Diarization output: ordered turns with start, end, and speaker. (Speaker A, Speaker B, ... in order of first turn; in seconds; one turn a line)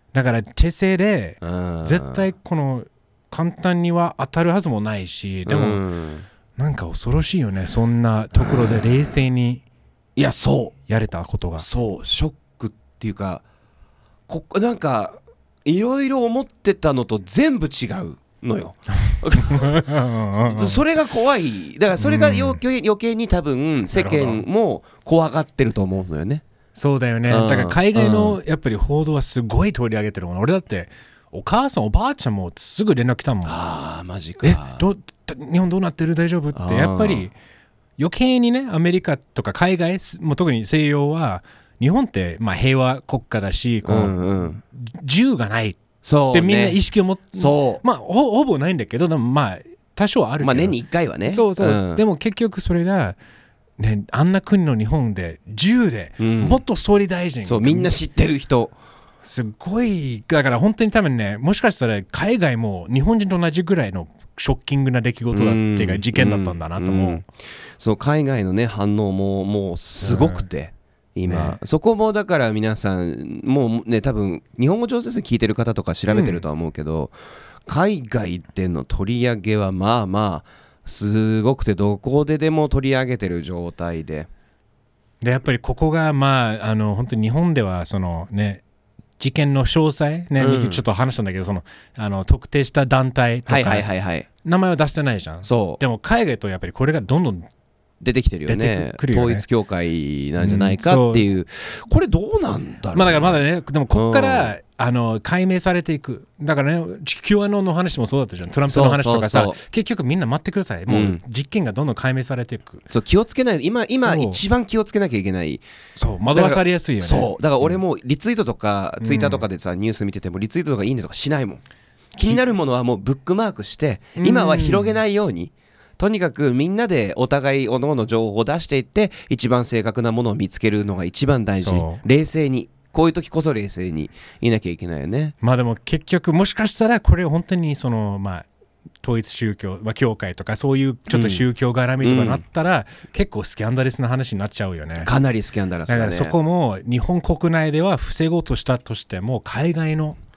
Speaker A: 0.1-5.8
Speaker B: 1.4-2.3
Speaker B: 5.5-6.2
Speaker A: 6.6-9.6
Speaker B: 8.3-9.2
Speaker B: 10.2-10.8
Speaker A: 10.9-11.7
Speaker B: 11.6-13.4
Speaker B: 14.3-19.8
Speaker A: 19.1-20.8
Speaker B: 20.4-26.4
Speaker A: 22.0-22.6
Speaker A: 23.9-24.4
Speaker A: 26.8-33.6
Speaker B: 27.3-28.4
Speaker B: 33.5-34.8
Speaker A: 34.4-37.4
Speaker B: 36.5-37.3
Speaker A: 38.0-45.8
Speaker B: 43.9-44.6
Speaker B: 46.0-46.8
Speaker A: 46.3-50.8
Speaker B: 47.3-47.8
Speaker B: 50.4-52.0
Speaker A: 51.3-53.2
Speaker A: 53.8-58.0
Speaker B: 56.2-56.6
Speaker B: 57.4-58.7
Speaker A: 59.2-67.2
Speaker B: 65.3-67.3
Speaker B: 67.8-77.2
Speaker A: 70.0-70.5
Speaker A: 71.3-71.6
Speaker A: 76.1-76.4
Speaker B: 77.7-84.3
Speaker A: 85.2-88.6
Speaker A: 89.2-93.9
Speaker B: 90.4-90.8
Speaker B: 93.5-94.3
Speaker A: 94.4-97.5
Speaker B: 95.4-95.8
Speaker B: 98.0-104.5
Speaker A: 98.5-99.5
Speaker A: 100.4-101.2
Speaker A: 102.9-112.8
Speaker B: 108.7-109.6
Speaker B: 110.9-111.2
Speaker B: 112.9-115.6
Speaker A: 114.0-114.4
Speaker A: 116.0-117.8
Speaker B: 116.3-121.6
Speaker A: 119.0-119.5
Speaker A: 122.2-122.4
Speaker B: 122.2-135.3
Speaker A: 124.2-125.0
Speaker A: 131.6-132.0
Speaker A: 135.4-138.5
Speaker A: 139.0-145.1
Speaker B: 141.1-141.5
Speaker B: 142.0-142.4
Speaker B: 145.0-146.4
Speaker A: 145.9-150.2